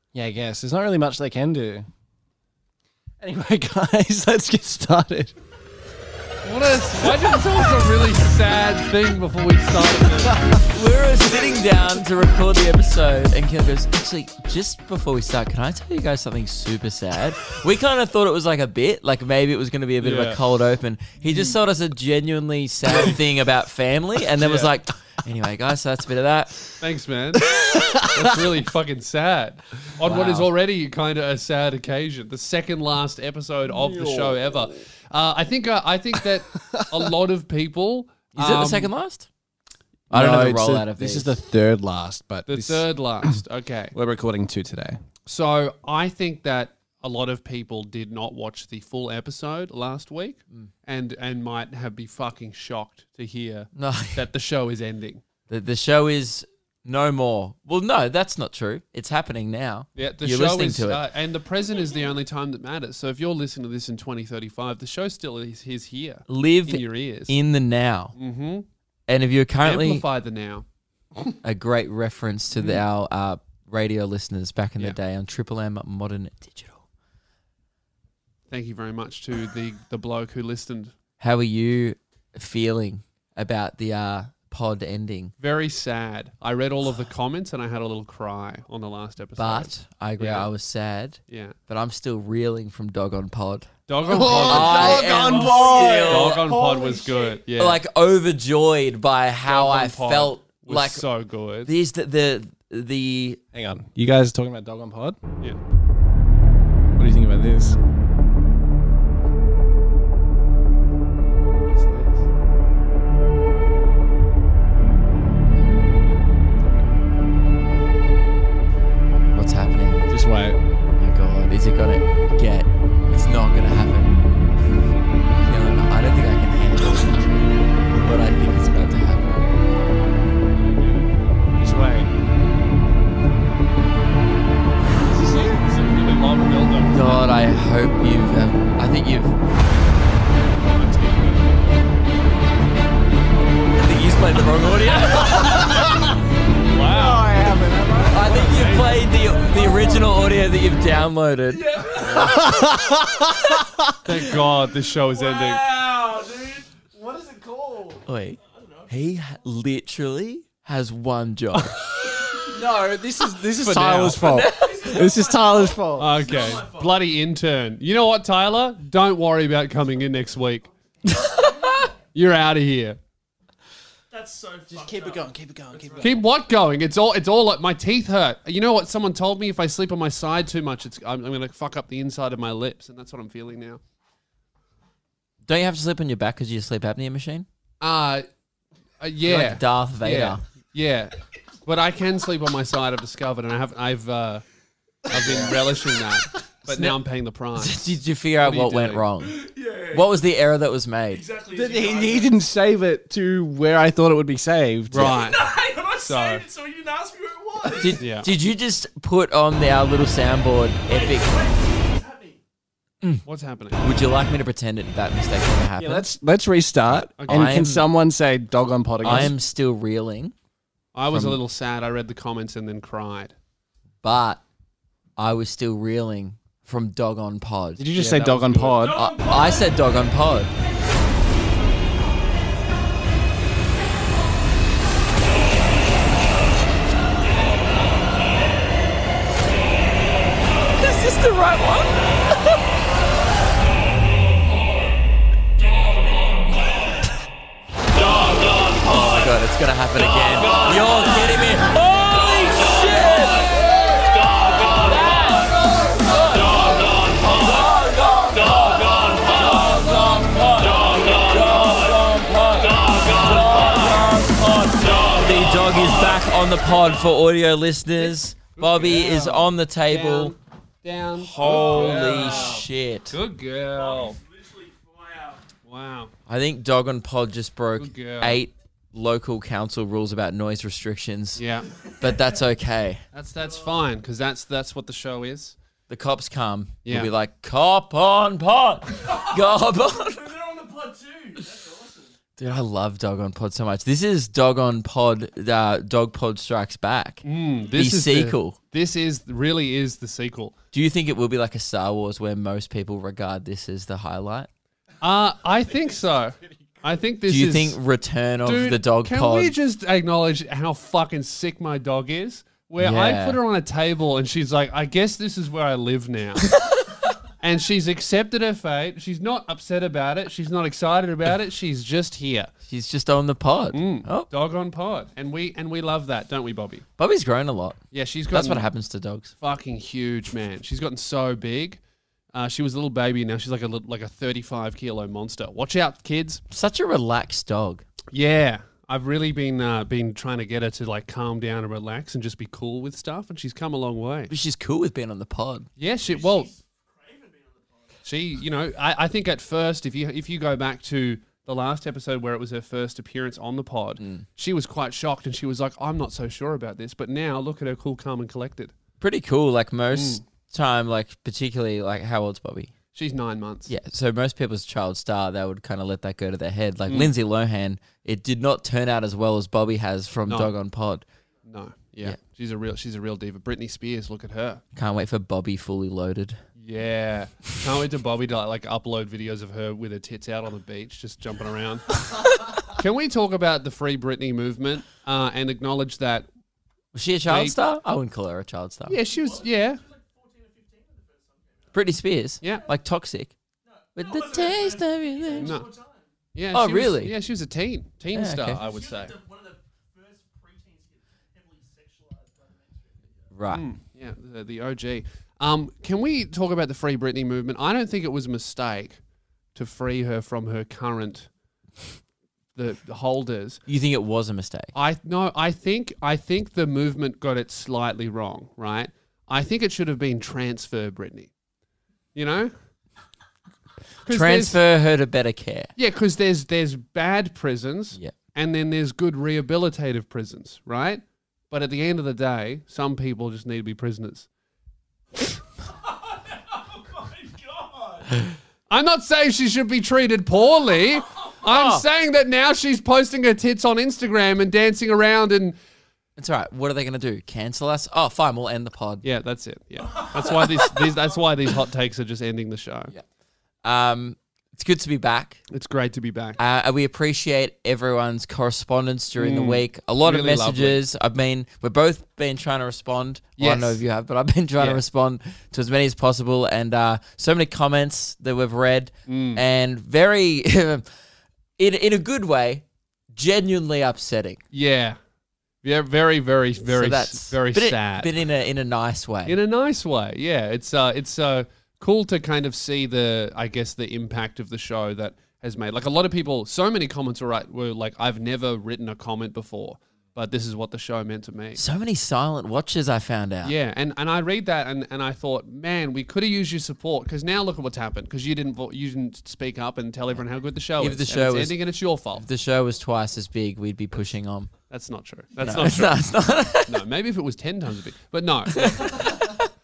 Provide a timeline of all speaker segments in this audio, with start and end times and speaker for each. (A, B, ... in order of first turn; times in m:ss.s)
0:00.1-0:01.9 A
0:03.2-0:05.4 A
0:06.4-0:10.4 B
0:10.7-0:26.7 C
0:20.0-0:20.4 B
0:21.2-0:21.6 B
0:24.4-0:24.7 B
0:26.8-0:38.9 B
0:27.5-0:28.0 C
0:30.0-0:30.5 C
0:33.7-0:34.6 A
0:38.4-0:39.3 C
0:40.1-0:41.3 C
0:40.1-0:43.4 A
0:42.5-0:44.0 B
0:43.9-0:45.0 A
0:45.3-0:55.2 B
0:53.8-0:54.3 C
0:55.5-1:01.0 C
1:00.0-1:07.4 B
1:06.3-1:08.2 C
1:08.2-1:08.7 B
1:09.1-1:10.0 C
1:09.6-1:10.6 B
1:11.4-1:16.8 C
1:12.5-1:12.8 B
1:18.5-1:20.9 B
1:21.2-1:25.3 C
1:25.4-1:30.5 B
1:29.4-1:33.7 C
1:31.3-1:31.6 B
1:33.9-1:37.8 B
1:34.0-1:37.1 A
1:34.4-1:36.5 C
1:36.6-1:37.4 D
1:37.6-1:41.1 C
1:39.4-1:41.7 B
1:41.6-1:43.4 C
1:43.5-1:45.2 A
1:47.0-1:47.8 A
1:51.7-1:52.2 A
1:59.3-2:00.1 C
2:00.1-2:00.6 A
2:01.0-2:04.2 C
2:05.4-2:09.5 C
2:10.6-2:11.3 B
2:11.6-2:12.1 A
2:15.1-2:15.6 A
2:15.1-2:17.2 B
2:16.9-2:19.4 C
2:20.6-2:21.5 B
2:23.8-2:25.8 C
2:25.6-2:26.1 A
2:26.7-2:27.3 B
2:26.7-2:28.8 A
2:28.1-2:33.2 C
2:28.5-2:28.9 B
2:31.6-2:32.5 D
2:32.1-2:33.6 A
2:34.0-2:35.7 B
2:35.1-2:36.8 D
2:37.0-2:38.0 A
2:38.1-2:41.8 C
2:38.6-2:38.9 D
2:42.4-2:46.1 A
2:43.6-2:45.2 C
2:44.5-2:47.0 D
2:46.0-2:50.7 B
2:51.1-2:51.9 D
2:51.1-2:51.9 C
2:52.1-2:53.0 B
2:54.1-2:56.1 D
2:54.7-2:56.2 A
2:56.0-3:03.8 B
3:05.5-3:07.5 C
3:07.8-3:08.3 B
3:09.0-3:14.4 B
3:09.2-3:10.4 C
3:15.1-3:19.0 B
3:15.2-3:15.6 A
3:16.6-3:17.0 C
3:17.6-3:21.2 C
3:19.3-3:20.1 D
3:21.1-3:22.4 D
3:21.5-3:25.2 A
3:24.9-3:25.4 B
3:25.1-3:28.0 D
3:26.0-3:26.4 B
3:27.8-3:31.4 C
3:28.0-3:28.3 B
3:30.9-3:32.4 D
3:33.2-3:33.9 B
3:33.8-3:36.1 C
3:35.8-3:39.3 A
3:36.9-3:37.9 C
3:37.2-3:37.7 B
3:39.0-3:39.3 B
3:39.0-3:40.3 C
3:41.0-3:43.4 B
3:41.1-3:41.4 A
3:44.0-3:44.4 C
3:45.2-3:47.9 C
3:47.8-3:49.0 A
3:47.9-3:48.9 B
3:48.8-3:49.8 D
3:48.9-3:50.5 C
4:00.8-4:02.6 C
4:08.8-4:30.3 C
4:28.6-4:34.2 B
4:31.2-4:33.2 C
4:31.7-4:32.4 D
4:33.7-4:35.4 D
4:35.7-4:36.1 B
4:36.3-4:41.4 C
4:37.8-4:38.4 B
4:41.4-4:41.7 B
4:42.0-4:43.0 C
4:43.1-4:45.6 B
4:45.9-4:50.4 C
4:46.8-4:47.1 B
4:49.1-4:49.4 D
4:50.1-4:52.1 D
4:52.4-4:58.6 C
4:57.2-5:00.6 B
5:00.7-5:04.5 C
5:05.0-5:07.8 B
5:07.3-5:09.5 C
5:08.4-5:16.5 B
5:12.8-5:13.4 C
5:17.4-5:22.5 B
5:22.7-5:24.3 C
5:23.7-5:26.8 B
5:27.0-5:27.8 C
5:27.9-5:28.7 B
5:28.3-5:29.3 C
5:29.4-5:31.8 B
5:32.3-5:36.4 B
5:36.5-5:37.8 C
5:38.1-5:44.3 B
5:44.3-5:45.7 C
5:45.8-5:46.5 B
5:46.0-5:48.0 D
5:48.0-5:58.7 B
5:54.0-5:54.3 C
5:59.0-6:02.7 C
5:59.9-6:00.2 B
6:02.9-6:03.7 B
6:03.7-6:11.0 C
6:06.9-6:07.1 B
6:10.3-6:10.5 B
6:11.5-6:14.6 B
6:14.8-6:16.4 C
6:16.6-6:22.0 B
6:22.7-6:26.3 B
6:26.9-6:29.0 C
6:27.2-6:27.6 B
6:28.9-6:29.8 B
6:29.0-6:31.8 D
6:31.7-6:33.3 C
6:33.7-6:36.0 D
6:34.0-6:35.6 C
6:35.4-6:35.7 B
6:36.3-6:39.2 B
6:36.5-6:37.1 C
6:38.1-6:38.6 C
6:38.6-6:43.3 D
6:43.3-6:43.6 C
6:43.5-6:49.0 B
6:49.6-6:51.3 B
6:52.6-6:53.6 B
6:53.7-6:54.7 C
6:54.7-7:01.3 B
7:02.2-7:02.5 B
7:04.0-7:04.6 B
7:04.1-7:05.7 C
7:05.8-7:14.3 B
7:15.9-7:18.1 D
7:18.7-7:25.6 B
7:21.4-7:21.8 C
7:26.2-7:29.0 C
7:29.0-7:32.9 B
7:30.3-7:30.7 C
7:33.6-7:35.4 C
7:35.5-7:36.4 B
7:36.4-7:50.8 C
7:39.2-7:40.8 B
7:43.4-7:43.8 B
7:44.6-7:44.8 B
7:49.1-7:49.4 B
7:51.6-7:54.4 C
7:54.5-7:55.0 B
7:55.6-7:58.1 B
7:56.7-7:59.4 C
7:59.3-8:11.6 B
8:11.6-8:13.5 C
8:13.4-8:22.3 B
8:20.8-8:21.6 C
8:22.2-8:24.5 C
8:24.7-8:26.0 B
8:25.4-8:26.8 C
8:26.5-8:29.2 B
8:28.5-8:29.5 C